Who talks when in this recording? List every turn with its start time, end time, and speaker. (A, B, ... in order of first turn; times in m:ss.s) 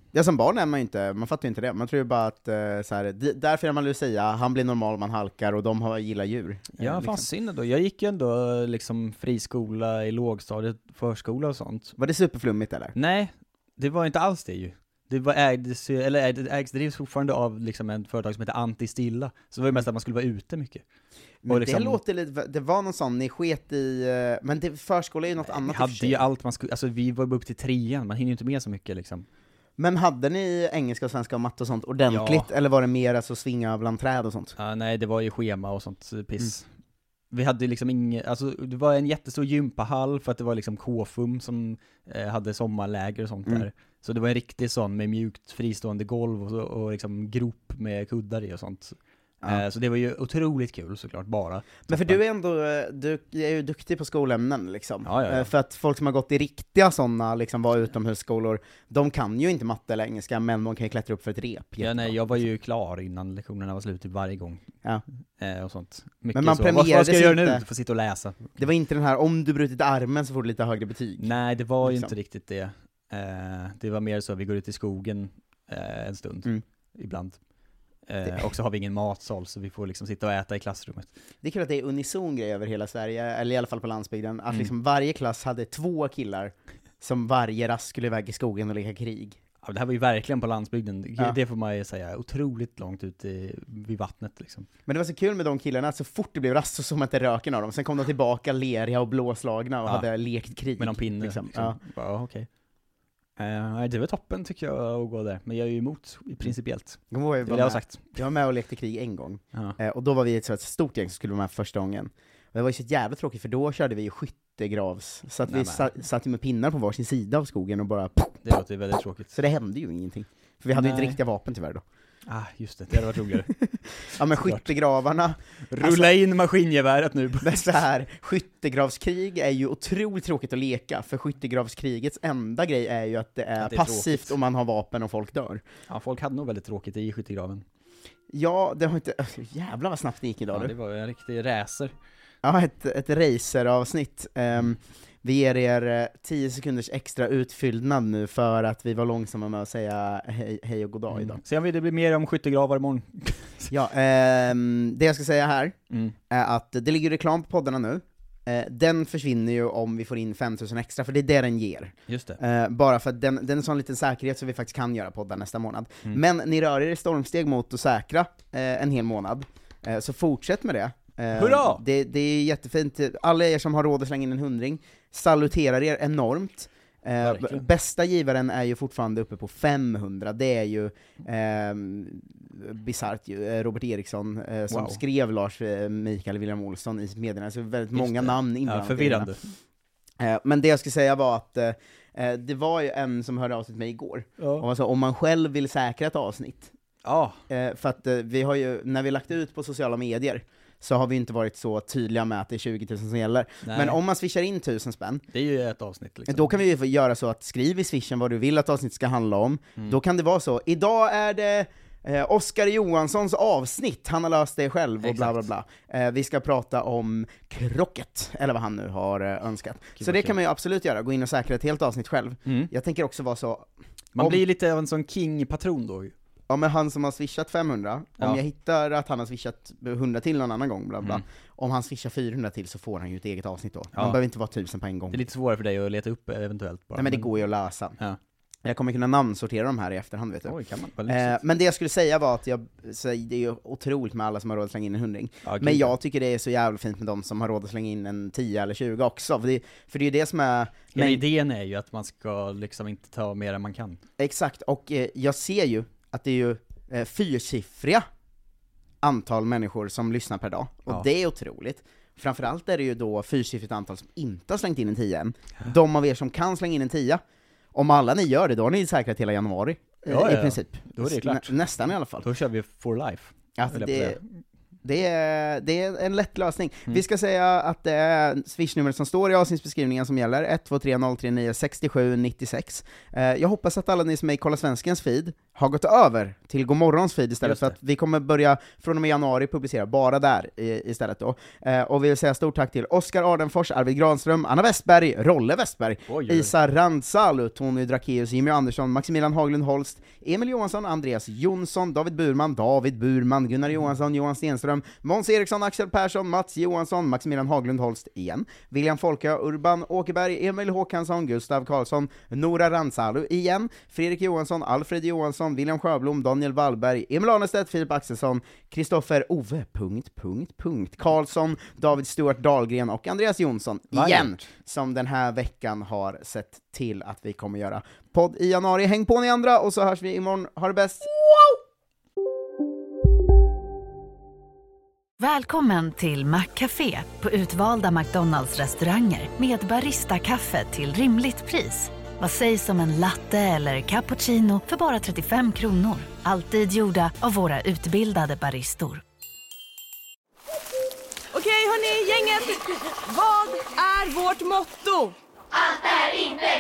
0:00.1-0:07.3 A
0:06.8-0:12.0 B
0:12.0-0:12.9 A
0:13.0-0:20.8 B
0:21.4-0:26.2 A
0:21.5-0:22.0 B
0:25.5-0:29.2 B
0:29.8-0:34.6 A
0:32.1-0:32.5 B
0:34.6-0:36.7 B
0:37.3-0:52.2 B
0:51.9-1:02.4 A
0:55.0-0:55.5 B
1:01.8-1:04.6 B
1:05.4-1:08.6 B
1:06.3-1:07.6 A
1:08.6-1:11.3 A
1:11.2-1:17.4 B
1:11.8-1:12.1 A
1:18.1-1:21.1 B
1:21.4-1:29.4 A
1:29.6-1:34.7 B
1:34.9-1:41.8 A
1:40.8-1:42.5 B
1:43.4-1:48.2 B
1:47.1-1:58.4 A
1:55.5-1:55.9 B
1:58.4-1:59.4 B
1:59.3-2:01.8 A
2:00.7-2:01.2 B
2:02.3-2:03.5 B
2:03.6-2:06.1 A
2:04.2-2:04.7 B
2:05.7-2:07.6 B
2:07.4-2:15.6 A
2:13.6-2:14.4 B
2:15.9-2:17.6 B
2:18.3-2:20.7 A
2:20.5-2:21.9 B
2:22.4-2:31.4 A
2:31.1-2:33.7 B
2:33.7-2:35.8 A
2:36.3-3:09.3 A
2:42.1-2:42.4 B
2:51.4-2:51.8 B
2:57.2-2:57.6 B
3:04.7-3:05.0 B
3:07.9-3:09.4 B
3:10.2-3:16.7 A
3:14.4-3:14.7 B
3:17.0-3:17.4 B
3:17.5-3:25.2 A
3:23.6-3:24.0 B
3:25.3-3:26.5 B
3:26.3-3:44.4 A
3:35.0-3:35.4 B
3:40.0-3:40.4 B
3:44.2-3:46.1 B
3:46.5-3:55.2 A
3:55.1-3:57.3 B
3:57.0-3:58.0 A
3:58.6-4:00.6 A
4:00.4-4:01.4 B
4:01.1-4:11.2 A
4:05.4-4:05.9 B
4:10.9-4:14.0 B
4:14.2-4:18.0 A
4:19.0-4:27.2 A
4:27.7-4:32.3 A
4:30.1-4:31.5 B
4:32.2-4:34.2 B
4:33.6-4:34.2 A
4:34.8-5:31.2 A
4:47.4-4:47.8 B
4:56.1-4:56.5 B
5:23.9-5:24.4 B
5:35.2-5:49.0 C
5:51.4-5:55.2 D